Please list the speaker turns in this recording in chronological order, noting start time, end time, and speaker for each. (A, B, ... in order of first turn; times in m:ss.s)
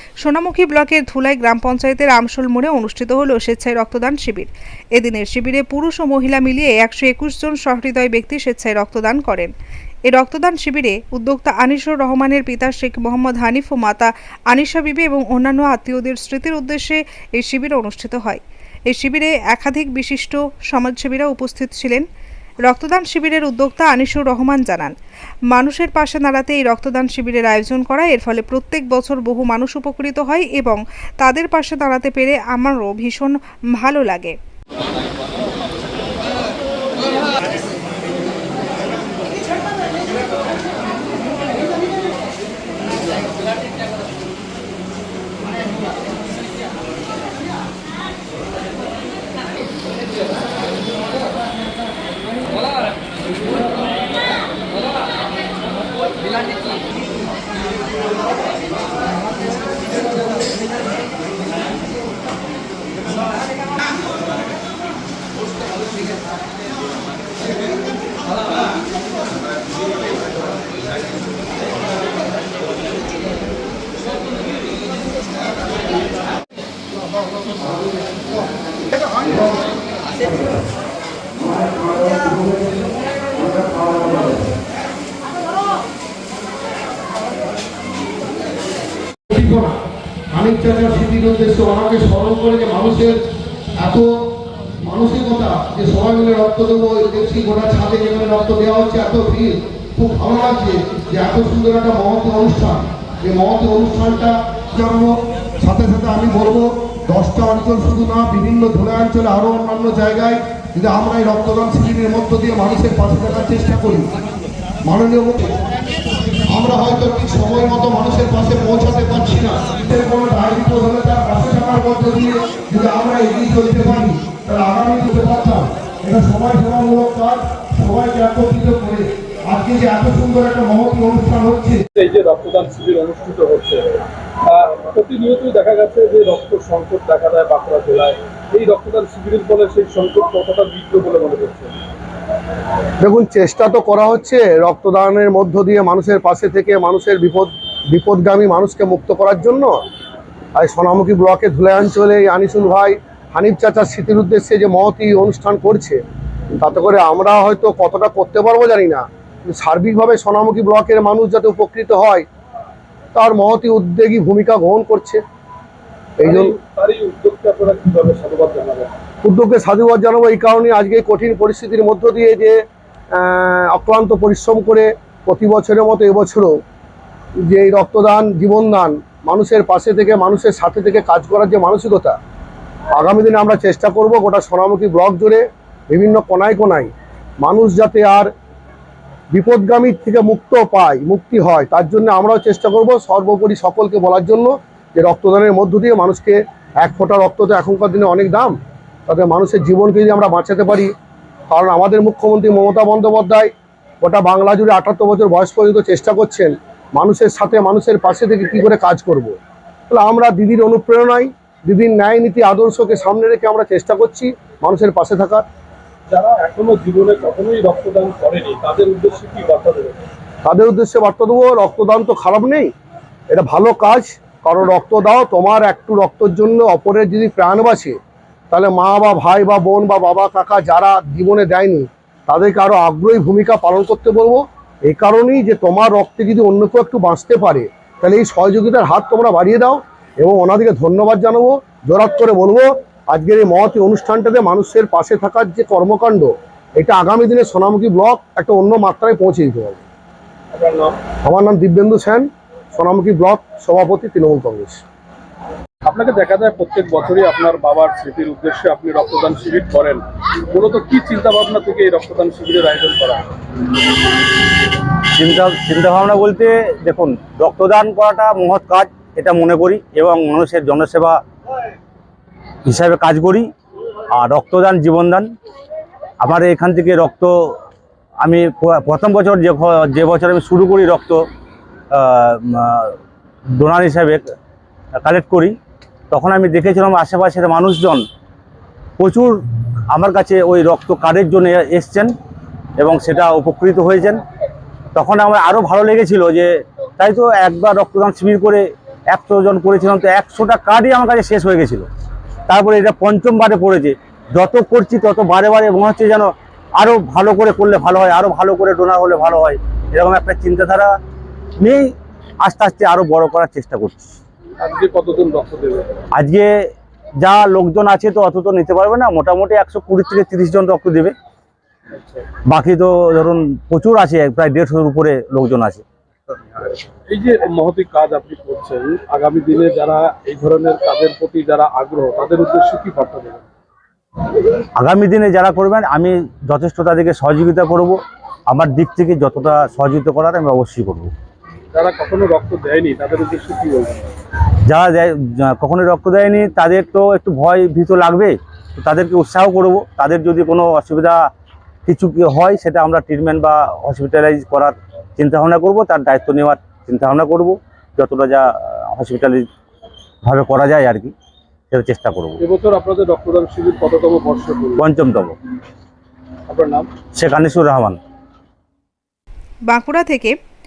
0:00.2-0:09.5 A
0:10.0-0:22.0 A
0:22.6-0:24.9 A
0:25.5-0:34.3 A
1:19.2-1:19.6 B
1:20.3-1:20.5 B
1:21.5-1:22.8 B
1:23.4-1:24.4 B
1:29.3-1:29.7 B
1:30.3-1:33.2 B
1:34.8-1:54.1 B
1:54.8-1:55.6 B
1:56.5-2:11.8 B
2:12.0-2:13.8 C
2:14.4-2:21.7 C
2:23.0-2:29.7 D
2:30.6-2:36.0 D
2:36.6-2:42.2 D
2:43.1-2:45.2 D
2:46.2-2:48.9 C
2:46.2-2:46.5 D
2:49.2-2:52.6 D
2:53.2-2:56.5 D
2:57.5-3:02.2 D
3:03.0-3:06.9 D
3:07.4-3:08.3 D
3:09.3-3:18.5 D
3:19.1-3:20.9 D
3:21.5-3:23.5 D
3:24.0-3:29.4 D
3:29.9-3:35.4 D
3:36.1-3:40.0 C
3:40.4-3:42.7 D
3:43.3-3:48.0 D
3:48.5-4:09.8 D
4:10.5-4:11.0 C
4:11.2-4:14.8 D
4:15.8-4:23.3 C
4:25.1-4:31.2 E
4:32.6-4:33.5 E
4:34.1-4:35.3 E
4:36.2-4:37.6 E
4:38.2-4:41.2 E
4:41.9-4:43.0 E
4:43.6-4:44.2 E
4:45.0-4:45.5 E
4:46.1-4:48.0 E
4:49.0-4:49.4 E
4:49.9-4:52.1 E
4:52.8-4:54.2 E
4:54.9-4:56.5 E
4:57.0-5:01.9 E
5:02.5-5:10.9 E
5:11.6-5:11.9 E
5:12.4-5:14.1 E
5:14.6-5:16.0 C
5:16.1-5:16.5 E
5:17.2-5:21.1 E
5:22.0-5:22.2 C
5:22.5-5:25.8 E
5:27.1-5:33.5 C
5:34.8-5:41.1 E
5:41.7-5:44.1 C
5:44.6-5:51.2 E
5:51.8-5:59.4 E
6:00.2-6:01.1 E
6:01.7-6:02.4 E
6:02.4-6:04.9 C
6:04.8-6:05.3 E
6:06.5-6:06.9 C
6:07.1-6:08.0 E
6:09.7-6:10.4 A